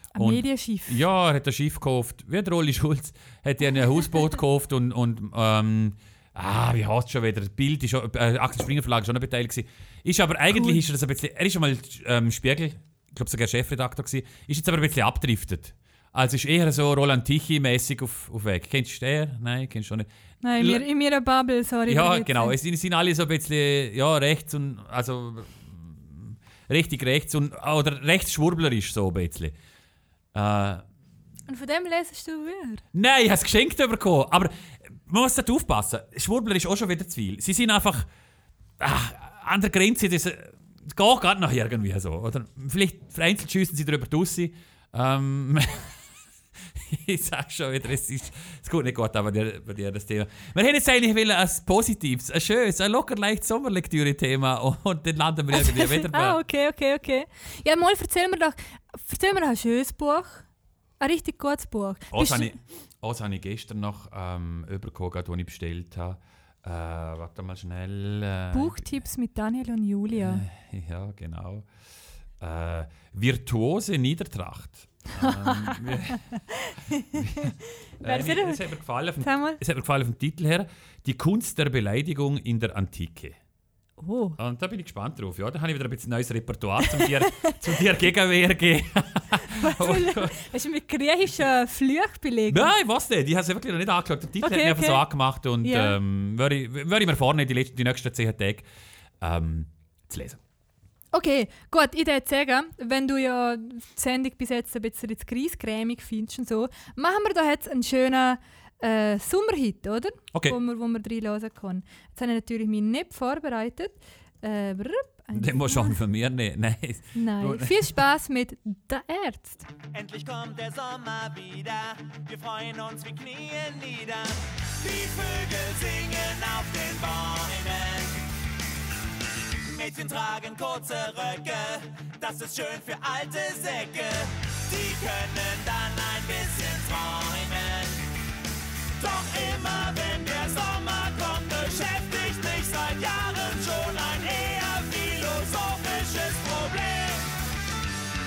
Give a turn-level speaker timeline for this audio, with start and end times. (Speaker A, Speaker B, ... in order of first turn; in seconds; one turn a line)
Speaker A: 0.1-1.0
Speaker B: 0.2-20.1
Speaker A: 10.5-10.8
Speaker A: 20.4-22.6
Speaker B: 20.6-20.9
Speaker B: 21.9-29.5
Speaker B: 30.3-30.9
Speaker A: 31.5-32.8
Speaker B: 32.9-38.1
Speaker B: 38.8-46.0
Speaker B: 46.8-56.4
Speaker A: 55.5-60.5
Speaker A: 61.0-62.5
Speaker B: 62.1-69.0
Speaker A: 68.5-70.4
Speaker B: 70.1-71.7
Speaker B: 72.4-76.2
Speaker A: 75.2-77.2
Speaker B: 77.1-83.4
Speaker A: 78.0-78.7
Speaker A: 79.2-79.6
Speaker A: 84.0-84.4
Speaker B: 84.4-90.4
Speaker A: 86.8-87.6
Speaker A: 89.5-92.7
Speaker B: 92.5-98.7
Speaker A: 94.4-95.0
Speaker A: 95.6-96.0
Speaker B: 99.2-100.4
Speaker A: 101.1-116.0
Speaker B: 115.3-118.0
Speaker A: 117.2-119.7
Speaker C: 119.9-128.2
Speaker C: 129.6-138.1
Speaker C: 139.0-147.3